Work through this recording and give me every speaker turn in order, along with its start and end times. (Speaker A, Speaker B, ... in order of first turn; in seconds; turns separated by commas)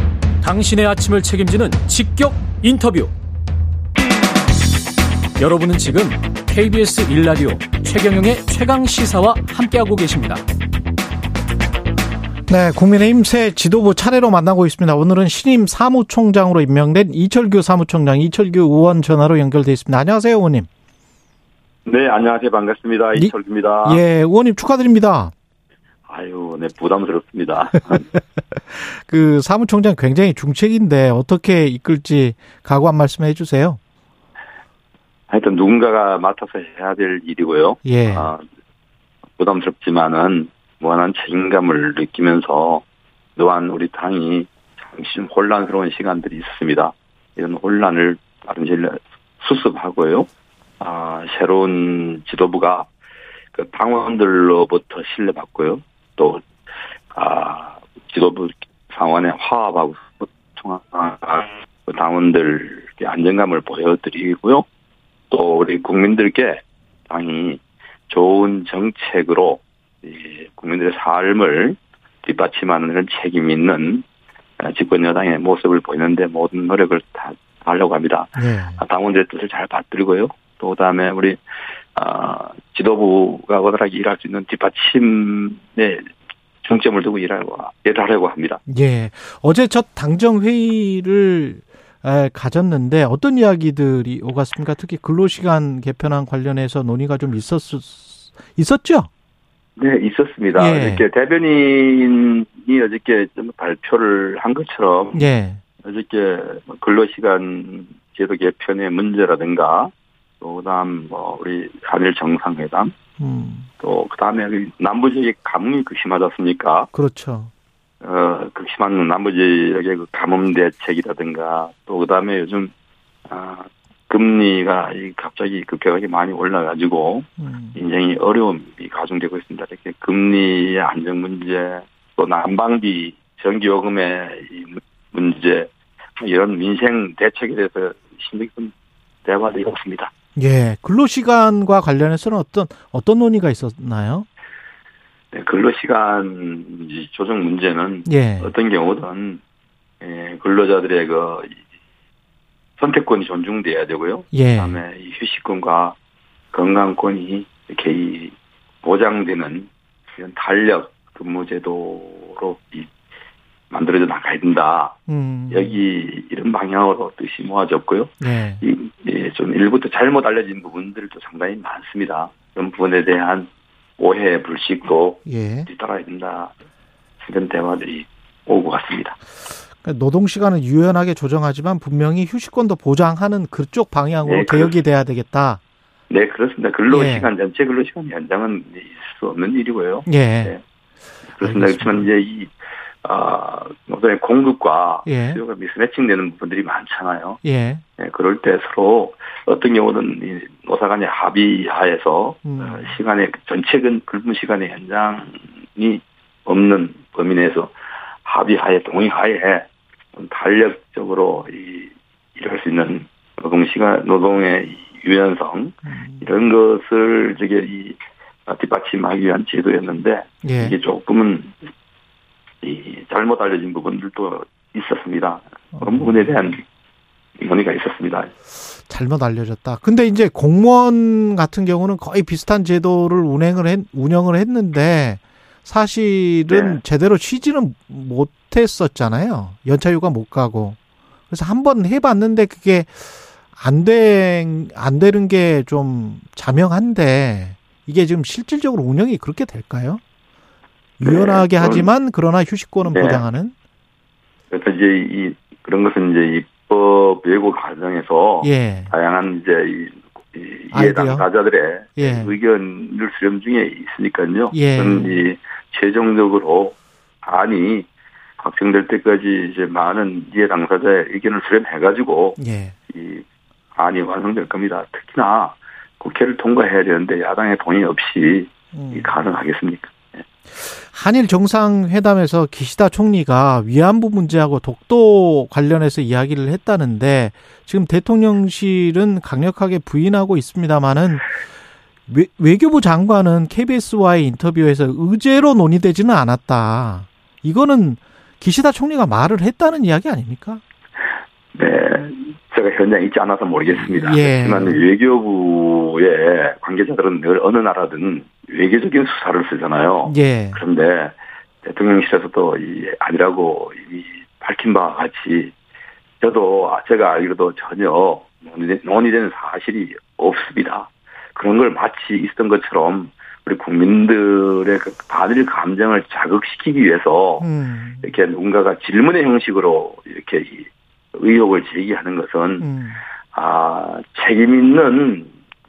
Speaker A: 0.4-3.1, Speaker A: 5.4-10.4, Speaker B: 12.5-20.7, Speaker C: 21.9-24.0, Speaker B: 23.1-25.3, Speaker C: 26.1-28.1, Speaker B: 28.7-33.8, Speaker C: 35.3-38.4, Speaker B: 37.8-38.3, Speaker C: 39.4-42.8, Speaker C: 43.4-50.3, Speaker C: 50.8-52.9, Speaker C: 53.5-56.4, Speaker C: 57.1-64.7, Speaker C: 65.3-74.0, Speaker C: 74.6-81.4, Speaker B: 78.4-78.8, Speaker C: 82.0-86.1, Speaker C: 86.6-88.6, Speaker B: 88.7-99.1, Speaker C: 99.8-105.2, Speaker B: 100.5-101.1, Speaker B: 105.1-105.6, Speaker C: 105.8-112.9, Speaker B: 113.2-113.7, Speaker C: 113.8-116.9, Speaker B: 116.9-117.5, Speaker C: 118.0-122.7, Speaker C: 123.3-138.7, Speaker B: 127.4-127.8, Speaker C: 139.2-140.1, Speaker B: 140.4-144.3, Speaker C: 145.3-149.4, Speaker B: 148.1-148.5, Speaker C: 150.0-151.6, Speaker C: 152.8-156.0, Speaker B: 154.3-154.8, Speaker C: 156.5-162.9, Speaker C: 163.7-165.0, Speaker B: 165.1-165.8, Speaker C: 165.5-176.5, Speaker B: 168.2-168.6, Speaker B: 175.3-175.7, Speaker C: 177.2-179.2, Speaker B: 179.8-185.6, Speaker C: 184.2-184.8, Speaker C: 186.1-190.6, Speaker B: 186.9-187.3, Speaker B: 190.1-190.6, Speaker C: 191.4-192.5, Speaker B: 191.4-192.1, Speaker C: 193.0-197.4, Speaker B: 195.1-195.4, Speaker B: 197.4-197.8, Speaker C: 198.0-207.7, Speaker B: 202.4-202.9, Speaker C: 208.2-221.6, Speaker B: 215.9-216.3, Speaker B: 220.4-220.8, Speaker C: 222.6-226.6, Speaker B: 225.7-226.5, Speaker C: 227.4-228.3, Speaker B: 228.9-240.8, Speaker C: 236.5-236.8, Speaker B: 241.3-250.0, Speaker B: 251.0-253.5, Speaker C: 251.0-251.9, Speaker C: 252.9-253.2, Speaker C: 254.5-267.9, Speaker B: 258.4-258.9, Speaker B: 260.7-261.3, Speaker B: 262.0-262.3, Speaker B: 264.5-265.2, Speaker C: 268.4-280.2, Speaker B: 272.4-272.8, Speaker B: 278.7-279.1, Speaker B: 280.5-291.3, Speaker B: 292.1-300.6, Speaker C: 301.5-315.5, Speaker B: 303.7-304.9, Speaker B: 310.1-310.6, Speaker C: 316.2-327.5, Speaker B: 327.4-328.1, Speaker C: 328.0-332.7, Speaker B: 332.6-333.0, Speaker C: 333.3-335.3